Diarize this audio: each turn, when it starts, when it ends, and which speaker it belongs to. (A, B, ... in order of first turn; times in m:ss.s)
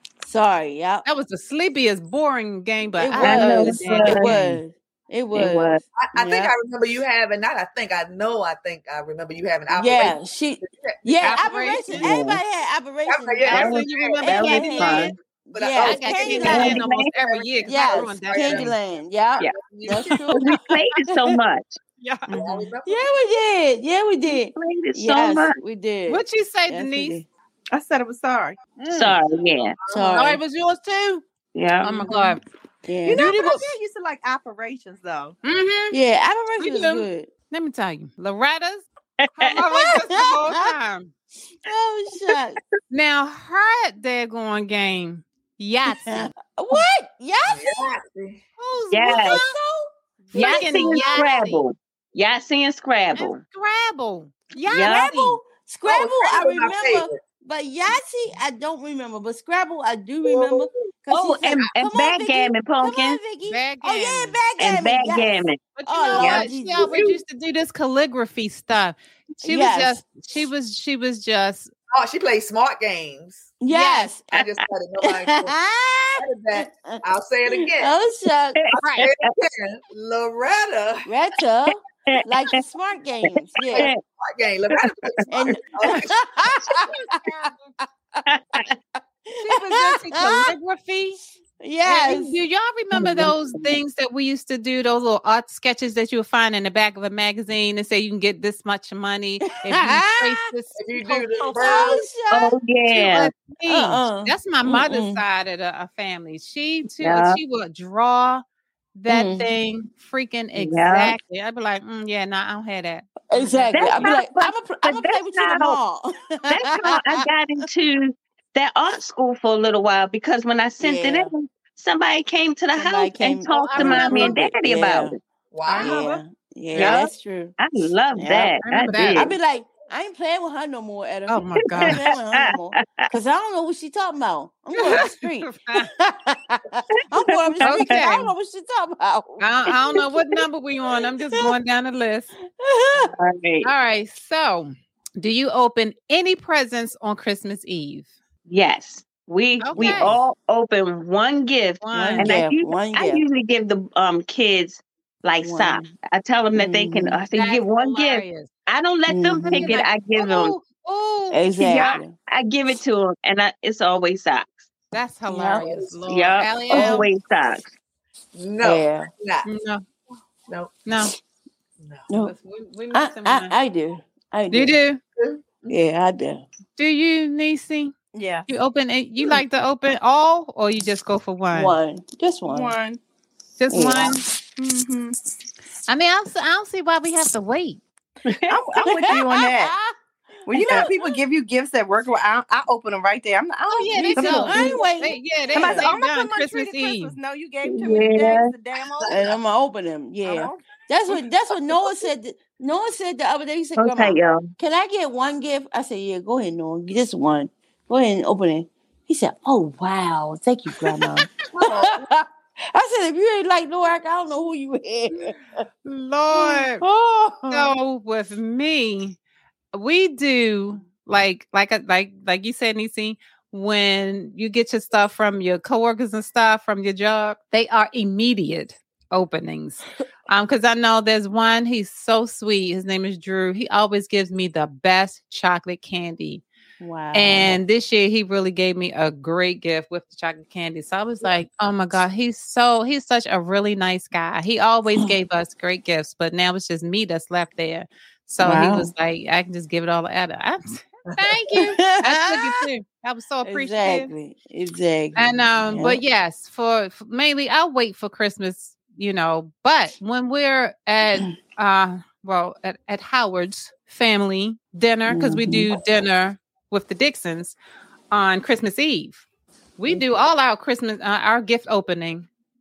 0:00.2-0:01.0 A
0:01.0-0:04.6 B
0:03.0-0:06.5 A
0:03.2-0:04.3 C
0:05.3-0:05.8 C
0:06.0-0:11.4 D
0:09.7-0:16.8 A
0:11.2-0:12.1 B
0:12.0-0:12.4 C
0:13.1-0:15.0 D
0:13.5-0:15.1 B
0:13.5-0:15.1 C
0:15.5-0:18.8 D
0:15.8-0:18.8 B
0:16.4-0:17.1 C
0:17.6-0:20.5 A
0:19.4-0:20.2 D
0:20.3-0:21.8 C
0:20.4-0:20.8 B
0:22.0-0:22.3 B
0:22.3-0:22.7 E
0:22.3-0:23.1 D
0:22.8-0:27.3 A
0:24.3-0:25.6 C
0:26.1-0:27.2 B
0:27.7-0:28.6 E
0:28.8-0:29.2 B
0:28.9-0:29.8 C
0:29.9-0:30.2 D
0:29.9-0:30.4 A
0:30.1-0:31.2 B
0:31.6-0:32.1 C
0:31.8-0:32.4 B
0:32.8-0:33.3 A
0:33.0-0:35.4 E
0:33.1-0:33.7 B
0:35.4-0:36.0 B
0:35.9-0:37.3 A
0:36.6-0:38.9 B
0:39.2-0:39.5 C
0:39.4-0:41.1 B
0:39.6-0:40.7 A
0:41.6-0:42.6 A
0:42.9-0:46.3 B
0:45.9-0:47.9 A
0:47.5-0:48.4 D
0:48.6-0:49.5 B
0:48.9-0:49.4 C
0:49.1-0:51.2 A
0:50.3-0:51.6 B
0:50.3-0:53.4 C
0:53.2-0:55.4 B
0:54.7-0:55.1 C
0:54.7-1:07.2 A
0:55.8-0:57.2 D
1:00.3-1:00.7 D
1:01.1-1:03.2 C
1:03.4-1:04.4 B
1:04.6-1:05.6 C
1:05.8-1:11.7 B
1:06.2-1:06.5 C
1:09.4-1:10.0 A
1:11.9-1:13.5 D
1:13.6-1:14.3 A
1:13.7-1:14.1 B
1:14.3-1:15.6 D
1:15.0-1:17.0 A
1:16.2-1:17.9 D
1:17.6-1:18.6 A
1:18.8-1:21.1 D
1:18.8-1:19.1 B
1:21.1-1:23.9 A
1:22.1-1:22.6 C
1:23.6-1:24.0 C
1:23.7-1:26.9 D
1:25.0-1:25.6 C
1:25.3-1:28.7 A
1:28.3-1:28.7 C
1:29.3-1:30.5 A
1:29.4-1:31.2 B
1:31.6-1:32.4 A
1:31.8-1:42.0 B
1:33.0-1:33.3 A
1:33.0-1:33.8 C
1:39.6-1:40.5 A
1:40.8-1:42.1 D
1:41.0-1:42.6 A
1:42.3-1:43.3 C
1:42.9-1:48.4 B
1:43.7-1:45.2 A
1:47.0-1:47.4 C
1:49.0-1:54.1 B
1:49.1-1:49.5 A
1:50.6-1:51.2 C
1:53.3-1:57.2 A
1:53.7-1:55.8 C
1:56.5-2:05.2 C
2:00.8-2:01.3 A
2:02.8-2:05.2 A
2:03.5-2:04.4 B
2:05.5-2:06.0 D
2:05.7-2:06.2 B
2:05.7-2:07.6 A
2:06.7-2:07.0 B
2:06.8-2:09.4 C
2:08.2-2:08.5 A
2:08.6-2:09.3 B
2:09.1-2:20.0 A
2:11.3-2:12.0 B
2:11.8-2:13.0 C
2:14.7-2:15.9 B
2:17.4-2:17.9 C
2:17.6-2:18.3 B
2:19.4-2:22.3 B
2:22.6-2:23.1 A
2:23.1-2:23.7 C
2:23.6-2:28.1 B
2:28.5-2:40.6 C
2:29.6-2:30.1 B
2:29.8-2:30.2 A
2:31.8-2:32.4 B
2:31.9-2:33.2 A
2:35.4-2:35.9 A
2:36.5-2:37.2 A
2:37.3-2:38.5 B
2:39.1-2:39.8 A
2:39.5-2:42.0 B
2:41.3-2:42.1 A
2:41.6-2:44.7 C
2:44.9-2:47.1 B
2:45.3-2:45.7 A
2:46.1-2:47.7 C
2:46.7-2:47.1 A
2:48.4-2:49.5 D
2:48.6-2:49.1 A
2:49.4-2:49.8 B
2:50.5-2:50.7 D
2:50.9-2:51.1 B
2:51.8-2:52.1 D
2:52.1-2:52.4 A
2:52.2-2:53.6 B
2:52.9-2:54.8 A
2:54.5-2:55.0 B
2:55.2-2:55.8 D
2:55.7-2:56.4 A
2:56.8-2:57.9 B
2:58.1-2:58.5 E
2:58.5-3:01.8 B
3:01.5-3:02.8 A
3:02.4-3:03.0 E
3:03.6-3:04.2 B
3:03.7-3:04.2 A
3:04.6-3:05.2 E
3:05.9-3:07.8 B
3:08.3-3:08.6 C
3:08.5-3:09.8 E
3:08.8-3:09.9 A
3:10.5-3:14.8 E
3:10.5-3:11.2 A
3:13.7-3:17.1 B
3:14.0-3:15.9 A
3:15.5-3:19.3 E
3:17.6-3:18.5 C
3:19.1-3:35.4 A
3:20.2-3:21.2 E
3:23.8-3:24.5 C
3:31.5-3:32.1 D
3:35.8-3:36.8 B
3:36.3-3:37.7 A
3:37.5-3:39.2 B
3:39.7-3:56.4 B
3:56.8-3:57.6 A
3:57.1-4:14.1 B
4:08.4-4:08.9 A
4:11.6-4:12.6 A
4:13.4-4:16.0 A
4:15.2-4:27.6 B
4:25.1-4:25.7 A
4:28.1-4:29.2 B
4:29.8-4:32.3 B